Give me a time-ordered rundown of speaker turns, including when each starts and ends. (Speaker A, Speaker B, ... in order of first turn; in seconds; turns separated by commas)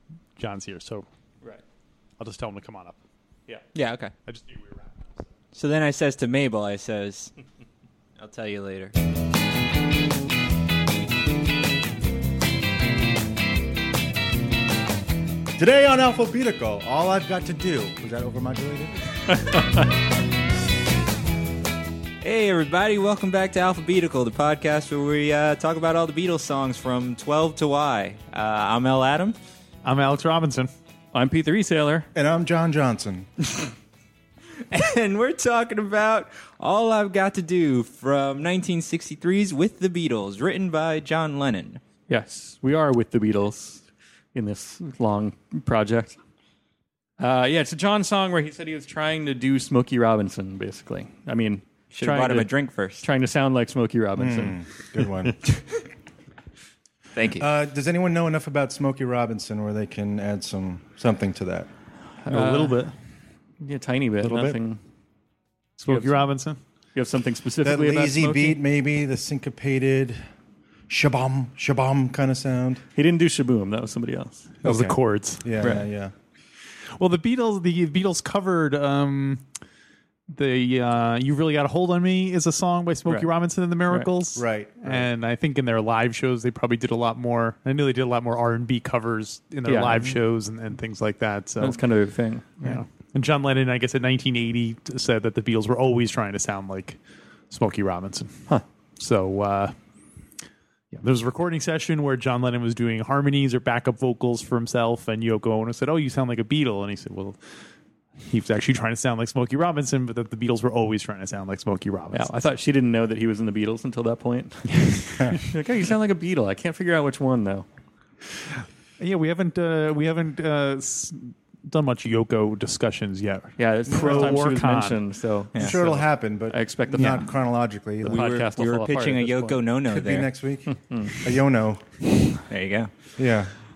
Speaker A: 0.4-1.1, Speaker A: 2.2-3.0, Speaker B: 3.8-4.1, Speaker A: 4.3-5.2, Speaker B: 5.5-7.3, Speaker B: 8.2-8.9, Speaker C: 15.6-18.9, Speaker B: 22.2-29.4, Speaker A: 29.8-30.7, Speaker D: 31.1-32.1, Speaker C: 32.1-33.5, Speaker B: 34.7-41.8, Speaker D: 42.1-46.2, Speaker D: 47.2-55.0, Speaker B: 51.9-53.0, Speaker C: 54.2-55.4, Speaker B: 57.1-57.5, Speaker C: 57.4-61.7, Speaker A: 62.2-62.9, Speaker D: 62.3-62.9, Speaker D: 63.6-64.8, Speaker C: 64.2-64.6, Speaker A: 65.8-66.6, Speaker D: 65.9-66.3, Speaker D: 66.9-68.6, Speaker C: 67.6-70.2, Speaker C: 70.9-72.8, Speaker D: 73.0-74.5, Speaker A: 74.6-75.5, Speaker C: 74.6-76.1, Speaker D: 75.6-75.9, Speaker A: 77.0-79.5, Speaker A: 80.3-91.8, Speaker C: 84.3-85.1, Speaker D: 89.7-90.1, Speaker D: 91.6-92.8, Speaker A: 92.6-97.0, Speaker A: 97.5-98.3, Speaker A: 99.0-99.7, Speaker A: 100.9-107.4, Speaker A: 108.2-112.3, Speaker D: 112.1-117.7, Speaker A: 114.8-115.3, Speaker A: 119.0-125.0, Speaker D: 123.6-127.3, Speaker C: 123.9-124.5, Speaker B: 125.5-125.8, Speaker C: 125.6-128.3, Speaker D: 128.0-129.6, Speaker B: 128.1-130.3, Speaker C: 129.9-131.8, Speaker D: 130.8-131.2, Speaker B: 132.5-132.9, Speaker C: 133.2-133.5